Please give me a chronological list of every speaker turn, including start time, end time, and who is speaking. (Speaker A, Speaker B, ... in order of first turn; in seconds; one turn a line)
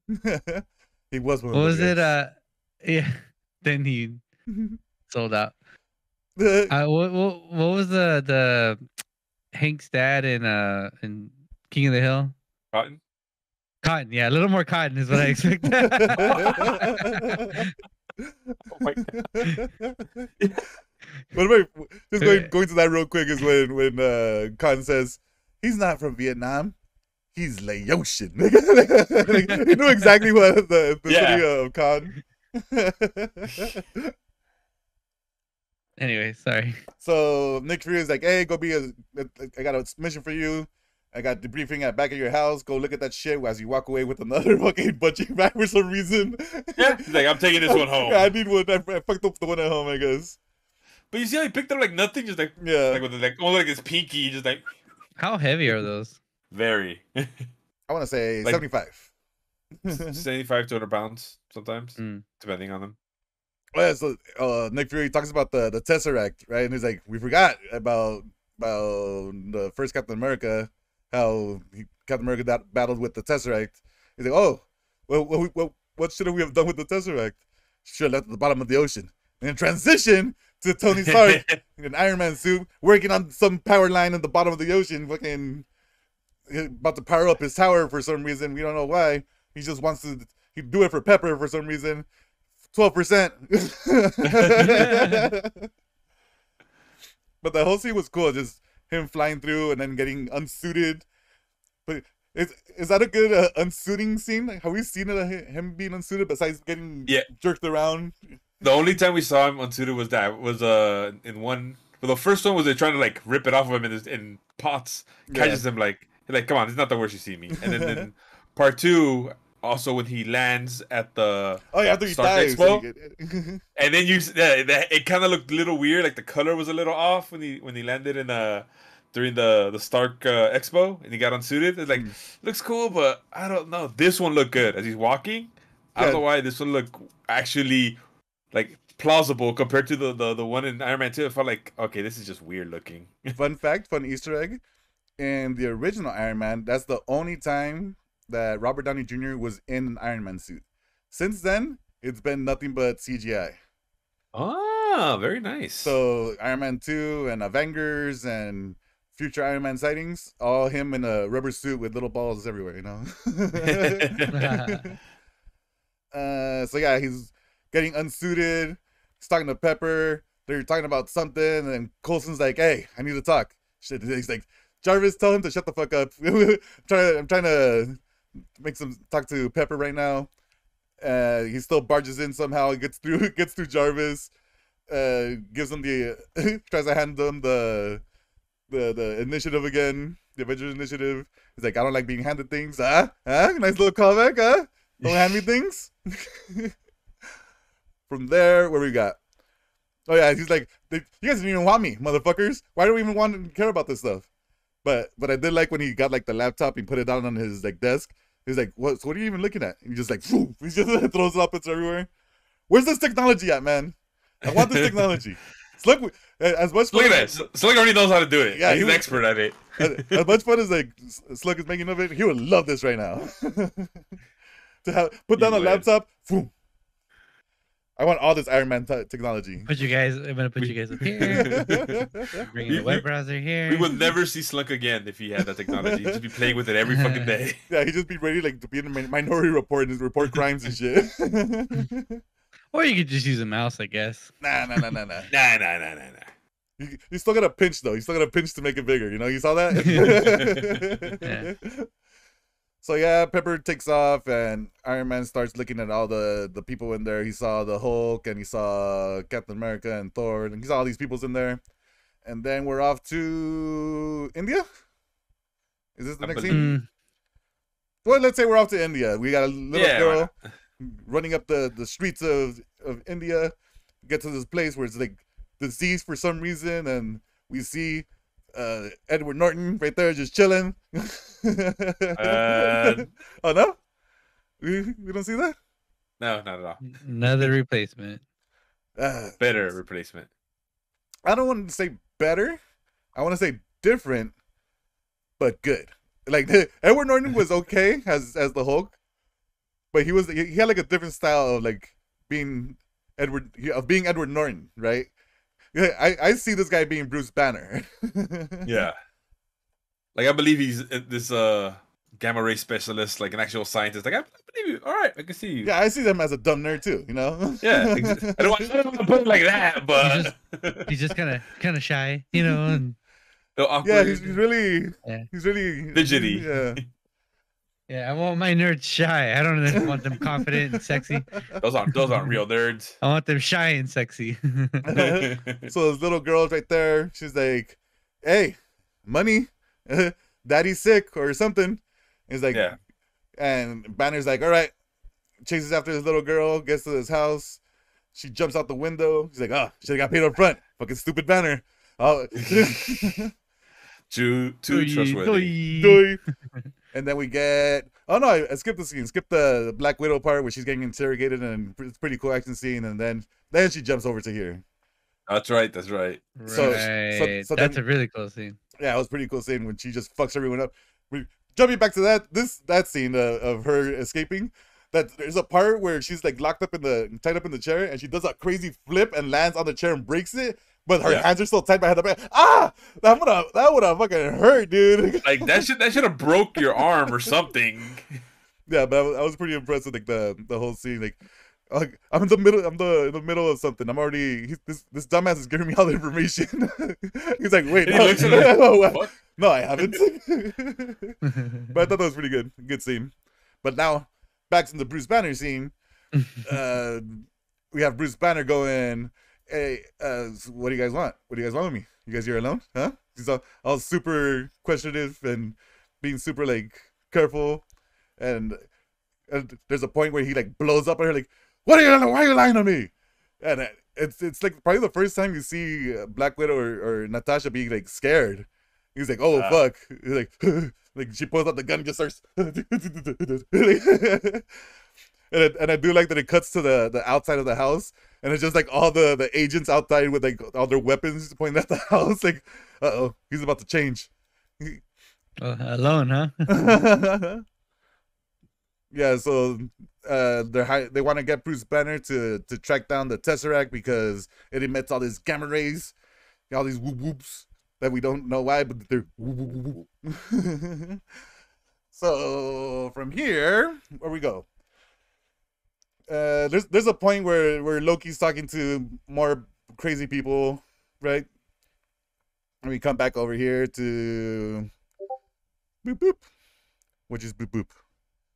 Speaker A: 0.1-2.1
Speaker B: 1.5-4.2
Speaker A: 4.5-4.8
Speaker B: 5.1-5.5
Speaker A: 6.4-6.7
Speaker B: 6.7-8.8
Speaker B: 9.5-12.4
Speaker C: 12.7-13.0
Speaker B: 13.8-17.7
Speaker A: 15.6-17.6
Speaker C: 16.2-16.8
Speaker A: 18.2-20.3
Speaker C: 18.7-19.1
Speaker C: 20.4-20.6
Speaker A: 21.3-26.8
Speaker B: 22.2-22.5
Speaker A: 27.3-34.1
Speaker C: 31.1-31.4
Speaker C: 33.5-33.8
Speaker B: 36.0-36.8
Speaker A: 37.0-50.4
Speaker C: 46.8-48.3
Speaker C: 51.1-54.8
Speaker A: 52.6-53.0
Speaker B: 55.2-56.2
Speaker C: 56.5-57.5
Speaker A: 57.9-59.1
Speaker A: 59.8-60.2
Speaker C: 59.9-63.0
Speaker B: 62.0-62.2
Speaker A: 63.8-85.7
Speaker C: 81.0-81.6
Speaker A: 86.5-92.0
Speaker A: 92.7-95.7
Speaker C: 94.2-95.1
Speaker B: 94.7-95.2
Speaker A: 97.4-101.0
Speaker A: 101.9-108.2
Speaker C: 108.6-122.9
Speaker A: 115.3-115.6
Speaker A: 117.6-118.1
Speaker A: 121.7-123.6
Speaker C: 123.8-138.0
Speaker A: 136.0-136.2
Speaker C: 138.5-143.4
Speaker A: 143.4-144.6
Speaker A: 145.2-153.6
Speaker C: 154.3-156.0
Speaker A: 155.8-165.0
Speaker C: 163.6-164.4
Speaker B: 164.3-164.9
Speaker A: 166.1-178.0
Speaker A: 178.6-180.3
Speaker A: 181.0-184.3
Speaker A: 184.9-188.0
Speaker A: 188.7-196.7
Speaker C: 195.0-195.4
Speaker A: 198.1-199.2
Speaker A: 200.1-204.3
Speaker A: 204.8-212.1
Speaker A: 212.7-217.4
Speaker C: 214.4-215.2
Speaker C: 216.9-220.3
Speaker A: 218.5-219.2
Speaker A: 219.8-224.0
Speaker A: 224.8-226.5
Speaker C: 225.4-225.9
Speaker A: 228.0-229.7
Speaker B: 229.7-234.1
Speaker C: 230.6-233.1
Speaker A: 231.3-232.4
Speaker C: 233.7-237.6
Speaker A: 235.7-236.2
Speaker B: 236.9-237.3
Speaker A: 237.7-242.2
Speaker B: 242.7-244.3
Speaker A: 244.4-245.3
Speaker C: 245.3-246.3
Speaker A: 246.8-251.9
Speaker B: 249.8-250.4
Speaker C: 249.9-251.2
Speaker B: 251.2-251.5
Speaker A: 252.8-261.6
Speaker A: 262.2-264.6
Speaker A: 266.0-266.8
Speaker C: 266.2-266.7
Speaker B: 266.5-266.9
Speaker A: 268.1-273.5
Speaker C: 269.7-270.3
Speaker A: 274.1-283.8
Speaker C: 282.2-283.1
Speaker A: 284.6-285.6
Speaker C: 286.2-287.5
Speaker B: 286.8-288.2
Speaker A: 289.0-289.6
Speaker C: 289.4-290.3
Speaker A: 291.2-292.6
Speaker A: 293.1-294.3
Speaker A: 295.4-299.0
Speaker A: 299.9-305.1
Speaker A: 305.7-308.7
Speaker C: 308.6-309.0
Speaker C: 310.1-315.7
Speaker A: 315.6-318.7
Speaker C: 317.6-320.9
Speaker B: 320.0-322.9
Speaker A: 322.4-322.8
Speaker C: 323.6-324.4
Speaker A: 323.8-326.8
Speaker C: 325.9-326.6
Speaker B: 327.9-331.4
Speaker A: 329.8-330.5
Speaker A: 331.4-331.6
Speaker C: 331.6-333.0
Speaker B: 333.0-334.9
Speaker A: 334.9-342.6
Speaker C: 334.9-335.7
Speaker C: 342.5-342.8
Speaker A: 343.4-344.7
Speaker A: 345.4-347.6
Speaker A: 348.1-353.3
Speaker C: 352.4-353.2
Speaker C: 354.1-355.6
Speaker B: 354.7-356.1
Speaker A: 355.7-356.2
Speaker A: 356.9-364.6
Speaker C: 365.3-366.9
Speaker B: 366.4-368.6
Speaker A: 366.5-367.8
Speaker A: 368.8-385.7
Speaker C: 385.2-388.2
Speaker A: 388.7-403.1
Speaker C: 397.7-399.2
Speaker A: 403.6-405.7
Speaker A: 406.4-417.6
Speaker A: 418.2-418.6
Speaker A: 419.3-434.4
Speaker C: 429.3-429.6
Speaker A: 435.3-444.8
Speaker B: 445.4-446.8
Speaker A: 446.5-447.4
Speaker A: 448.9-455.9
Speaker A: 456.5-461.0
Speaker A: 461.9-464.4
Speaker A: 466.1-471.3
Speaker A: 472.6-474.7
Speaker A: 475.8-476.2
Speaker A: 477.1-477.7